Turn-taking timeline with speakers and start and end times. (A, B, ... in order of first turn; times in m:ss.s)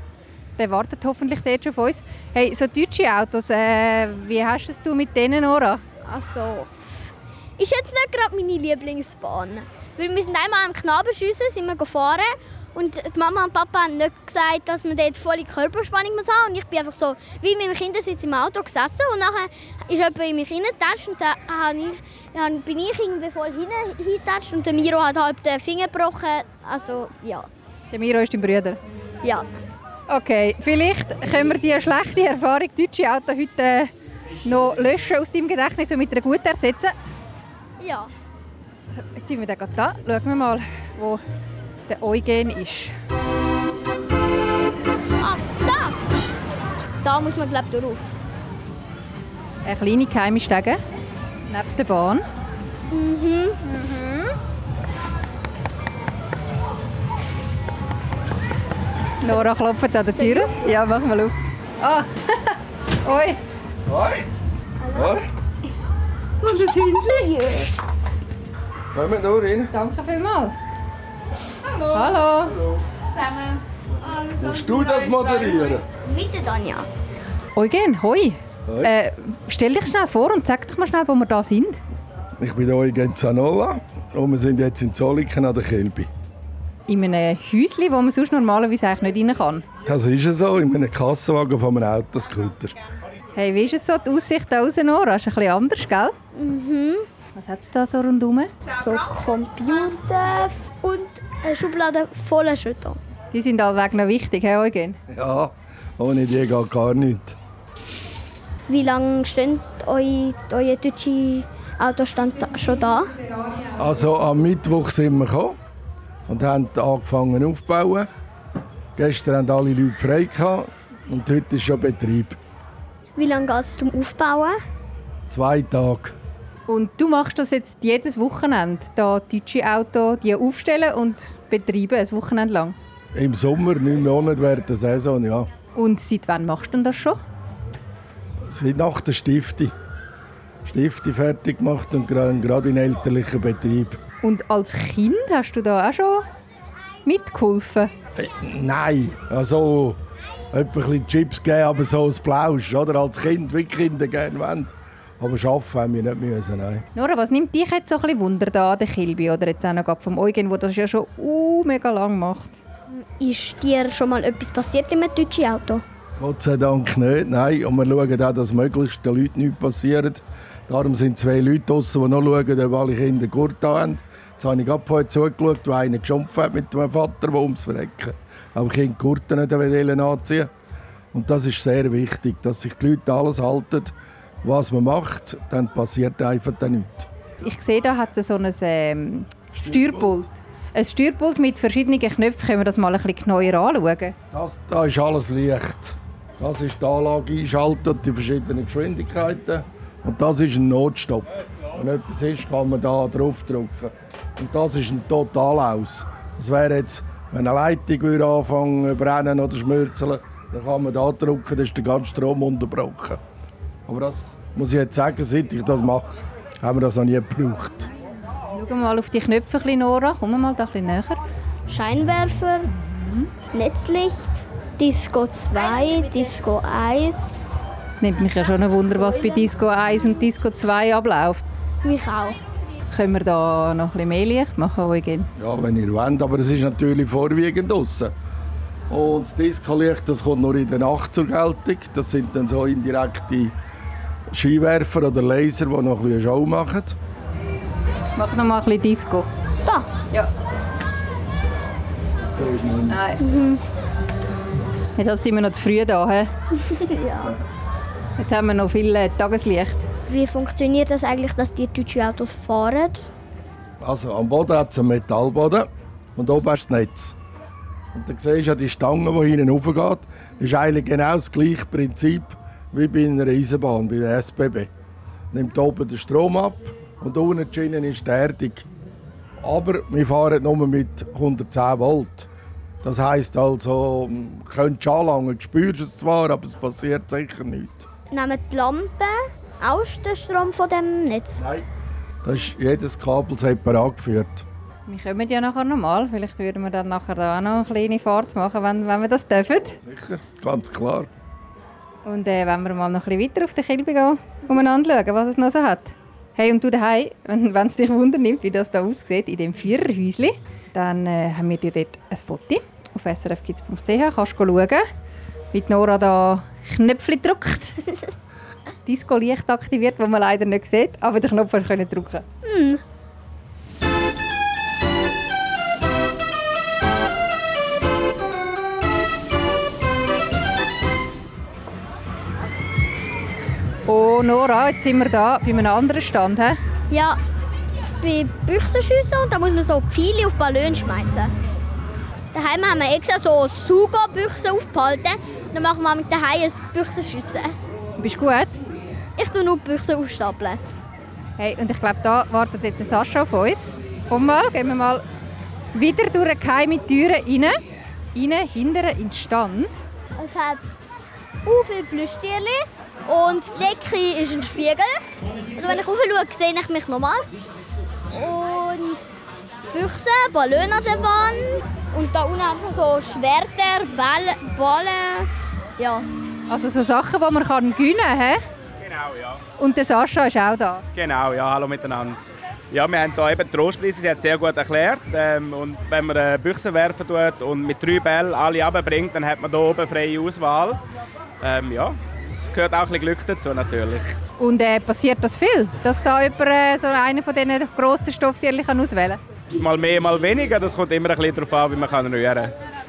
0:00.6-0:05.8 A
0:06.0-0:27.5 B
0:27.9-0:28.8 A
0:30.1-0:33.9 A
0:34.4-0:36.9 A
0:37.8-0:38.1 B
0:38.9-0:41.2 A
0:41.9-0:42.9 A
0:45.2-0:46.0 B
0:47.0-0:48.1 B
0:49.6-0:50.8 A
0:51.5-0:52.2 A
0:52.9-0:53.6 B
0:53.6-0:54.3 A
0:59.2-1:03.4 A
1:00.2-1:00.5 B
1:03.8-1:04.3 C
1:04.9-1:05.3 C
1:06.4-1:07.7 A
1:08.9-1:09.7 C
1:09.7-1:10.6 A
1:11.9-1:12.6 A
1:14.3-1:15.9 C
1:16.0-1:16.9 B
1:17.6-1:21.8 A
1:22.4-1:26.1 C
1:26.9-1:29.6 A
1:29.8-1:32.8 C
1:33.3-1:36.1 A
1:36.3-1:37.0 B
1:37.3-1:38.5 A
1:38.7-1:43.0 B
1:43.3-1:45.0 A
1:45.1-1:47.4 C
1:48.7-1:53.1 B
1:53.8-1:55.6 C
1:56.3-1:58.1 C
1:59.0-2:02.4 C
2:03.2-2:04.6 B
2:05.3-2:06.2 C
2:06.7-2:12.8 A
2:13.1-2:15.5 C
2:15.7-2:17.2 A
2:18.4-2:19.7 C
2:20.6-2:24.0 C
2:24.2-2:26.2 A
2:27.0-2:27.9 A
2:28.1-2:30.0 C
2:30.5-2:36.8 C
2:36.9-2:42.6 A
2:42.9-2:45.8 B
2:46.2-3:00.5 C
3:01.1-3:07.1 C
3:07.4-3:14.1 A
3:09.5-3:10.3 C
3:14.3-3:33.2 C
3:33.9-3:37.9 C
3:38.5-3:41.2 A
3:41.7-3:42.7 B
3:42.8-3:43.3 A
3:43.5-3:47.4 B
3:48.0-3:51.4 A
3:51.8-3:52.4 B
3:52.9-3:55.3 A
3:55.4-3:58.1 C
3:58.9-4:03.5 C
4:04.3-4:07.0 C
4:08.2-4:09.3 A
4:09.6-4:09.9 B
4:12.2-4:13.0 C
4:12.9-4:13.2 A
4:13.2-4:13.6 B
4:15.0-4:16.3 A
4:16.5-4:17.3 B
4:18.2-4:19.8 A
4:20.1-4:23.1 B
4:23.8-4:27.1 C
4:27.9-4:34.7 C
4:35.3-4:38.6 C
4:39.4-4:42.3 C
4:42.8-4:47.9 C
4:48.1-4:51.4 B
4:51.4-4:51.7 C
4:52.2-4:54.4 C
4:54.9-4:59.8 A
4:59.8-5:01.1 C
5:02.0-5:14.8 A
5:15.5-5:17.8 A
5:18.8-5:22.2 A
5:22.4-5:22.8 B
5:33.9-5:36.6 A
5:36.9-5:37.2 B
5:38.0-5:41.3 B
5:42.3-5:47.5 B
5:48.0-5:48.5 A
5:49.2-5:50.6 B
5:51.4-5:55.0 A
5:55.7-5:57.6 A
5:58.1-5:59.8 A
6:00.2-6:00.7 B
6:01.4-6:05.0 B
6:05.6-6:07.3 B
6:08.1-6:09.1 B
6:09.7-6:16.0 B
6:16.5-6:18.4 A
6:18.8-6:19.4 D
6:19.6-6:20.8 A
6:20.9-6:30.8 D
6:31.4-6:34.1 D
6:34.4-6:39.2 A
6:39.6-6:42.5 D